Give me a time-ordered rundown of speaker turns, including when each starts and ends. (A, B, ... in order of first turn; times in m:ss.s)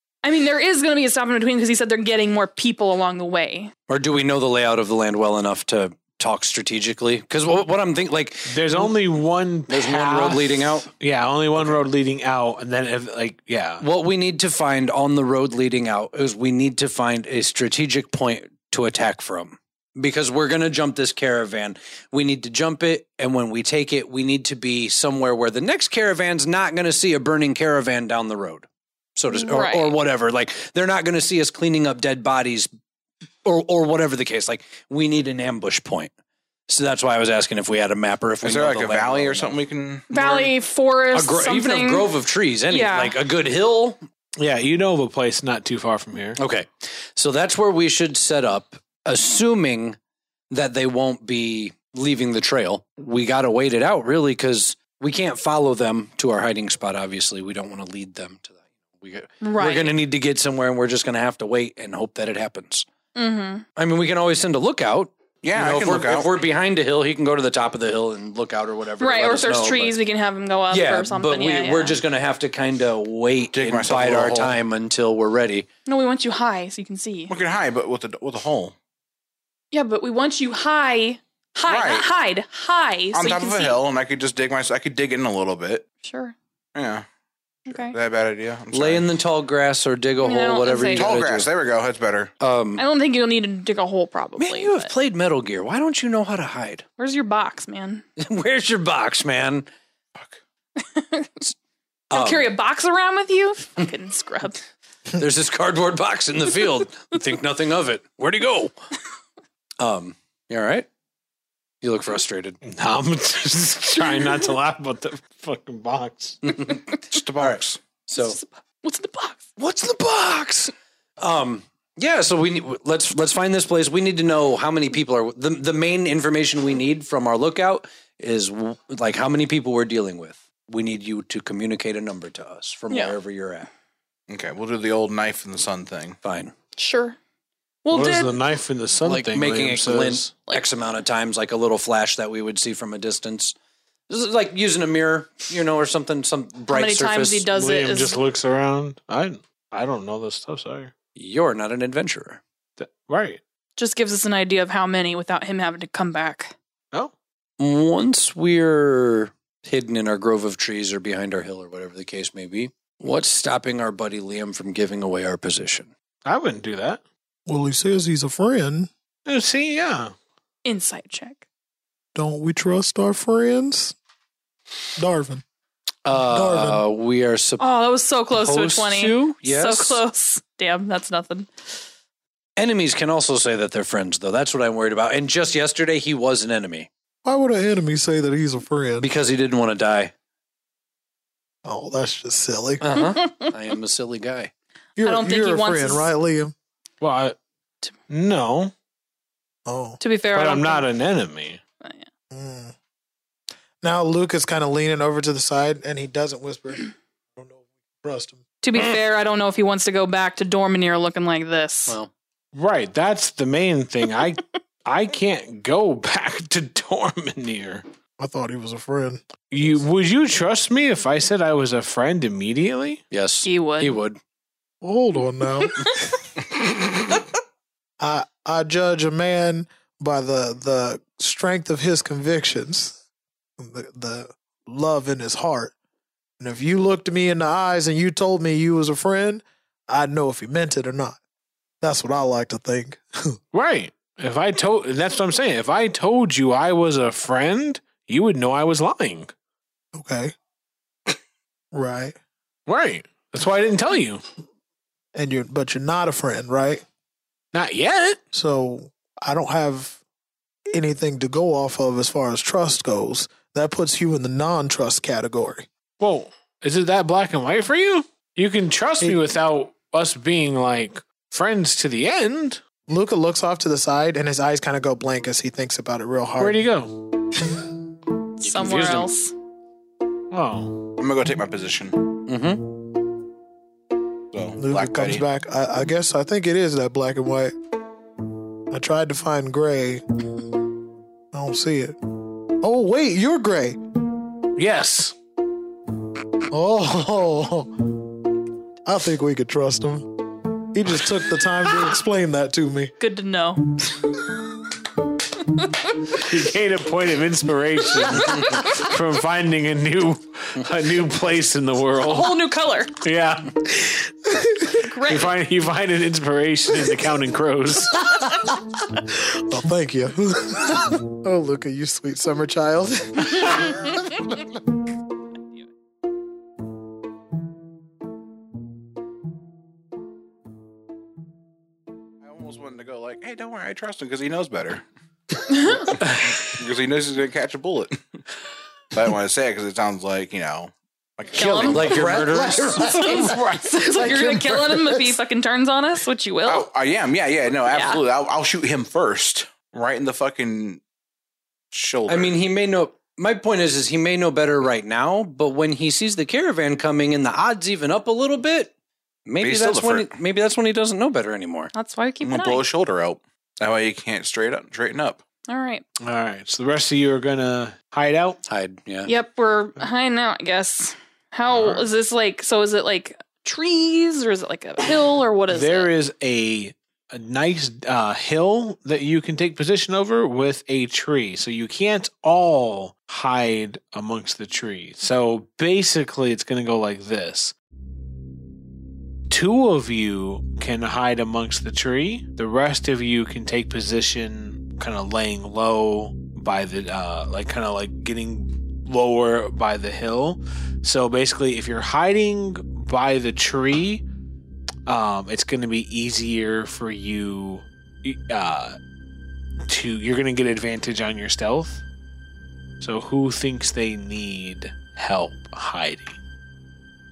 0:00.2-0:03.7 A
0:03.9-0:08.9 B
0:08.5-0:13.8 C
0:09.7-0:10.9 B
0:11.6-0:11.8 B
0:13.8-0:32.7 B
0:29.3-0:30.0 A
0:33.4-0:36.1 B
0:36.7-0:39.6 B
0:38.4-0:40.5 D
0:40.1-0:42.1 A
0:41.1-0:44.0 B
0:42.7-0:43.2 A
0:44.4-0:46.4 C
0:46.4-0:50.0 B
0:50.5-1:02.9 B
0:59.4-1:00.0 A
1:03.2-1:03.7 A
1:03.8-1:10.0 B
1:05.4-1:06.3 D
1:09.0-1:12.0 A
1:10.7-1:15.7 B
1:13.5-1:14.6 D
1:15.9-1:17.3 A
1:17.3-1:18.8 D
1:19.7-1:23.8 A
1:21.7-1:22.1 D
1:23.1-1:25.8 D
1:26.0-1:26.4 A
1:26.8-1:27.1 D
1:27.7-1:28.0 A
1:27.7-1:29.1 D
1:28.7-1:31.5 B
1:30.2-1:31.2 A
1:30.9-1:32.3 D
1:32.4-1:32.8 B
1:32.8-1:34.9 A
1:34.4-1:36.8 B
1:37.0-1:38.0 A
1:38.2-1:39.7 B
1:40.8-1:41.5 A
1:42.1-1:42.5 B
1:42.1-1:44.6 A
1:45.2-1:48.7 B
1:49.8-1:50.9 B
1:51.8-1:52.6 B
1:52.6-1:56.6 C
1:56.4-1:56.9 B
1:57.1-1:57.8 D
1:57.4-1:58.4 B
1:58.1-1:59.4 A
1:59.6-2:13.7 B
2:12.9-2:13.2 A
2:14.3-2:16.2 D
2:16.2-2:16.5 B
2:16.8-2:17.2 A
2:17.8-2:18.4 A
2:17.9-2:20.3 C
2:19.0-2:23.6 B
2:24.1-2:27.5 B
2:26.7-2:28.2 A
2:27.5-2:30.9 C
2:31.2-2:32.4 B
2:32.8-2:33.4 C
2:33.8-2:36.6 A
2:37.6-2:45.9 B
2:46.2-2:47.0 C
2:47.5-2:48.9 E
2:49.3-2:50.1 C
2:50.6-2:51.4 A
2:52.2-2:54.0 E
2:55.0-2:55.4 E
2:56.0-2:57.6 B
2:56.1-2:56.8 E
2:57.6-3:01.8 A
2:58.3-3:00.0 B
3:02.6-3:06.9 B
3:07.2-3:09.1 E
3:09.0-3:10.1 B
3:11.6-3:12.8 E
3:12.8-3:14.5 B
3:12.9-3:13.5 A
3:15.0-3:16.6 E
3:15.0-3:16.1 A
3:17.0-3:17.4 C
3:18.1-3:18.7 C
3:19.7-3:20.0 E
3:20.0-3:20.9 A
3:20.3-3:21.6 C
3:22.3-3:22.7 E
3:23.8-3:28.4 E
3:28.6-3:32.0 A
3:32.5-3:37.8 C
3:38.2-3:39.3 E
3:39.5-3:43.0 C
3:43.1-3:44.2 B
3:43.4-3:44.0 A
3:44.8-3:45.9 E
3:48.0-3:53.0 E
3:53.6-3:55.7 E
3:56.4-4:01.2 E
4:01.8-4:03.4 E
4:03.5-4:09.3 C
4:09.9-4:10.3 E
4:11.7-4:12.2 E
4:12.7-4:14.2 C
4:15.1-4:16.8 E
4:17.5-4:18.2 C
4:18.3-4:20.0 E
4:20.7-4:25.7 E
4:26.0-4:32.6 C
4:32.9-4:36.6 E
4:36.4-4:36.9 C
4:38.4-4:39.3 A
4:38.4-4:39.1 B
4:40.3-4:40.8 C
4:41.0-4:42.0 D
4:42.3-4:42.6 B
4:44.3-4:45.2 D
4:44.6-4:47.5 E
4:48.7-4:50.0 E
4:51.3-4:52.0 E
4:52.6-4:53.8 E
4:54.6-4:55.2 C
4:56.5-4:57.9 E
4:58.8-5:00.1 E
5:00.7-5:02.9 E
5:03.0-5:04.2 A
5:06.1-5:12.4 C
5:12.0-5:13.0 A
5:13.0-5:14.0 C
5:14.2-5:14.8 E
5:14.7-5:15.3 A
5:15.0-5:18.1 C
5:18.4-5:24.3 E
5:32.2-5:34.8 D
5:35.5-5:35.9 A
5:36.0-5:36.4 C
5:36.4-5:38.0 D
5:38.9-5:42.2 D
5:41.4-5:42.1 A
5:41.4-5:45.2 E
5:41.6-5:43.0 B
5:42.8-5:46.7 A
5:43.1-5:43.6 C
5:46.5-5:50.8 D
5:47.7-5:48.0 A
5:51.7-5:52.4 D
5:52.1-5:58.7 B
5:59.3-6:01.7 B
5:59.4-6:00.1 D
6:01.7-6:02.6 A
6:02.2-6:05.2 D
6:05.5-6:05.8 A
6:06.0-6:08.4 C
6:08.5-6:09.1 B
6:09.1-6:15.9 A
6:11.5-6:11.8 C
6:15.5-6:27.5 C
6:29.3-6:44.0 C
6:44.9-6:48.8 C
6:49.6-6:51.8 C
6:52.8-6:56.2 C